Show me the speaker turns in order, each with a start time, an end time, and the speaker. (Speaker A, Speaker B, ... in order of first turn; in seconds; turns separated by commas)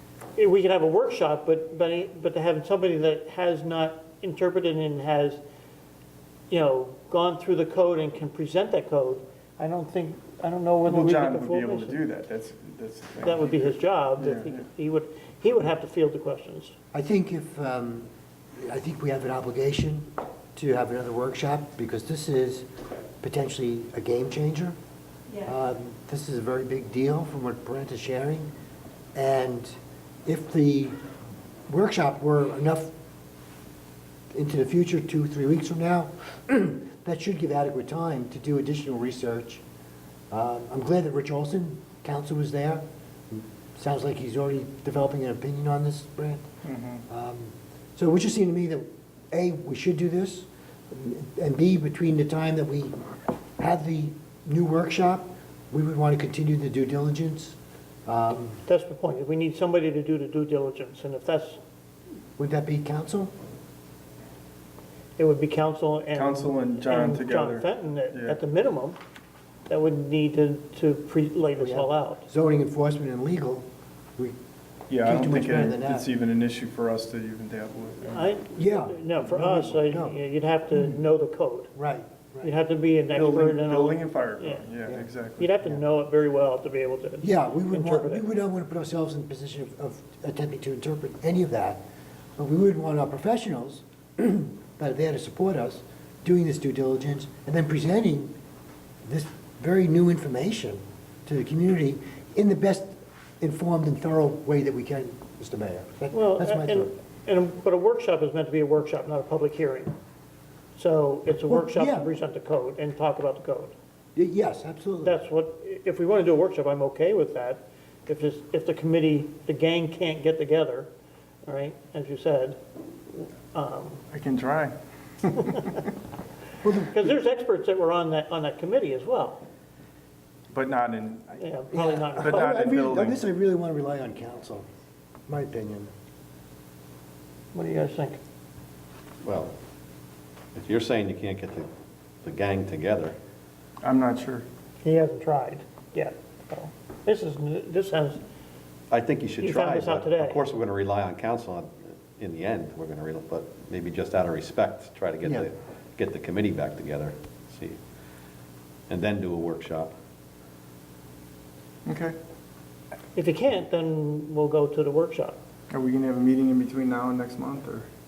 Speaker A: 0.4-5.4, Speaker A: 6.5-12.0, Speaker B: 10.9-14.6, Speaker A: 13.2-16.8, Speaker C: 16.9-22.7, Speaker C: 23.2-24.8, Speaker C: 25.4-28.5, Speaker C: 29.1-30.9, Speaker C: 31.7-32.9, Speaker C: 34.3-39.6, Speaker C: 40.3-46.5, Speaker B: 46.6-47.0, Speaker C: 47.1-53.0, Speaker C: 53.6-58.6, Speaker A: 58.6-61.6, Speaker C: 62.4-63.3, Speaker A: 65.2-69.0, Speaker B: 66.1-68.4, Speaker A: 69.7-72.2, Speaker C: 71.6-73.7, Speaker B: 74.9-78.3, Speaker C: 75.0-76.1, Speaker A: 78.0-81.7, Speaker C: 78.5-80.2, Speaker C: 81.8-82.6, Speaker A: 82.4-84.7, Speaker B: 83.1-85.5, Speaker A: 85.4-88.3, Speaker C: 87.2-91.8, Speaker C: 92.4-98.3, Speaker C: 99.0-106.9, Speaker A: 106.1-110.0, Speaker A: 110.8-113.7, Speaker C: 111.5-112.1, Speaker C: 114.2-115.2, Speaker A: 115.0-120.9, Speaker A: 121.5-124.0, Speaker B: 124.1-124.7, Speaker A: 125.5-125.8, Speaker C: 126.6-127.2, Speaker A: 126.9-129.4, Speaker B: 130.5-131.4, Speaker A: 131.4-132.7, Speaker C: 131.7-134.7, Speaker B: 132.1-133.2, Speaker C: 135.3-135.9, Speaker A: 137.5-138.2, Speaker D: 139.2-139.6, Speaker D: 140.6-141.7, Speaker D: 142.2-143.2, Speaker B: 143.8-144.4, Speaker A: 144.8-148.2, Speaker D: 148.9-157.8, Speaker A: 149.4-150.4, Speaker D: 158.9-159.9, Speaker B: 161.9-162.2, Speaker A: 163.2-165.4, Speaker B: 165.7-167.9